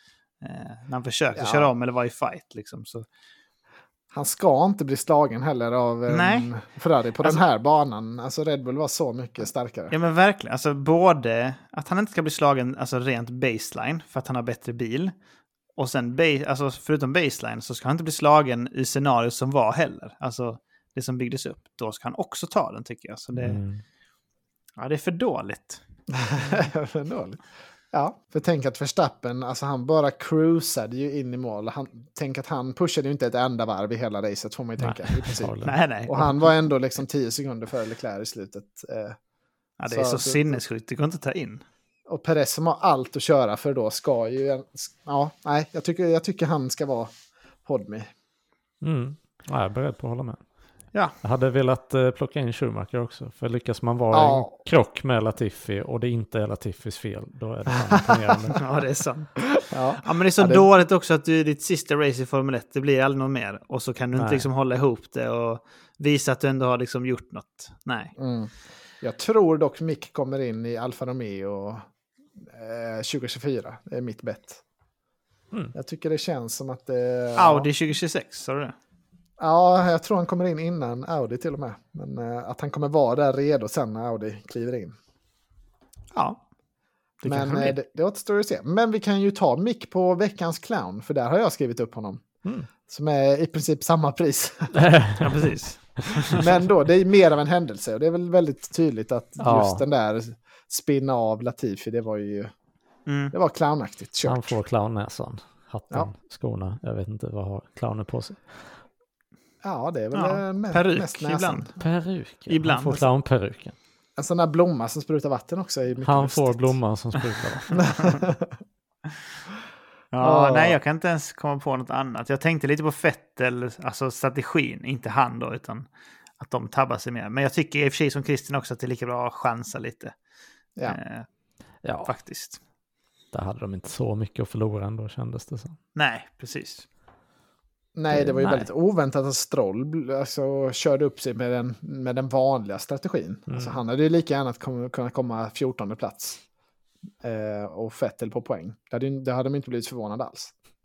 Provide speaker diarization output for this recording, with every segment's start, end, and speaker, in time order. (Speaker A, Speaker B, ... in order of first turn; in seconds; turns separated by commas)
Speaker A: 0.4-3.0, Speaker B: 1.4-1.7, Speaker B: 4.1-9.9, Speaker A: 6.1-6.5, Speaker A: 9.9-15.1, Speaker A: 15.8-23.6, Speaker C: 23.3-23.8, Speaker A: 24.8-25.8, Speaker B: 26.1-27.4, Speaker B: 27.9-39.2, Speaker C: 34.8-35.8, Speaker A: 35.6-36.3, Speaker A: 39.8-41.6, Speaker B: 39.9-40.6, Speaker B: 42.1-47.1, Speaker B: 47.6-48.1, Speaker C: 48.8-50.4, Speaker C: 51.2-58.6, Speaker B: 54.1-54.5, Speaker A: 58.5-68.1, Speaker B: 59.6-60.6, Speaker C: 64.2-64.5, Speaker B: 68.2-71.8, Speaker B: 72.4-74.6, Speaker B: 75.7-77.7, Speaker A: 77.4-78.7, Speaker B: 79.4-84.9, Speaker A: 86.1-86.4, Speaker A: 87.2-87.8, Speaker B: 87.2-92.2, Speaker B: 92.9-94.8, Speaker C: 94.7-95.4, Speaker A: 95.2-96.5, Speaker B: 96.3-102.5, Speaker C: 99.4-99.8, Speaker A: 103.0-103.3, Speaker B: 103.3-104.6, Speaker C: 104.2-108.4, Speaker B: 109.6-111.7, Speaker A: 110.1-111.7, Speaker C: 111.8-113.8, Speaker A: 112.5-113.1, Speaker B: 114.2-116.8, Speaker C: 116.0-117.8, Speaker B: 117.8-118.6, Speaker A: 120.1-125.9, Speaker B: 120.2-120.8, Speaker A: 126.4-130.1, Speaker A: 130.8-131.3, Speaker C: 131.8-132.1, Speaker A: 132.0-132.6, Speaker C: 133.3-135.8, Speaker A: 135.9-136.8, Speaker B: 137.9-146.4, Speaker C: 138.1-138.7, Speaker C: 143.5-143.8, Speaker B: 147.2-150.5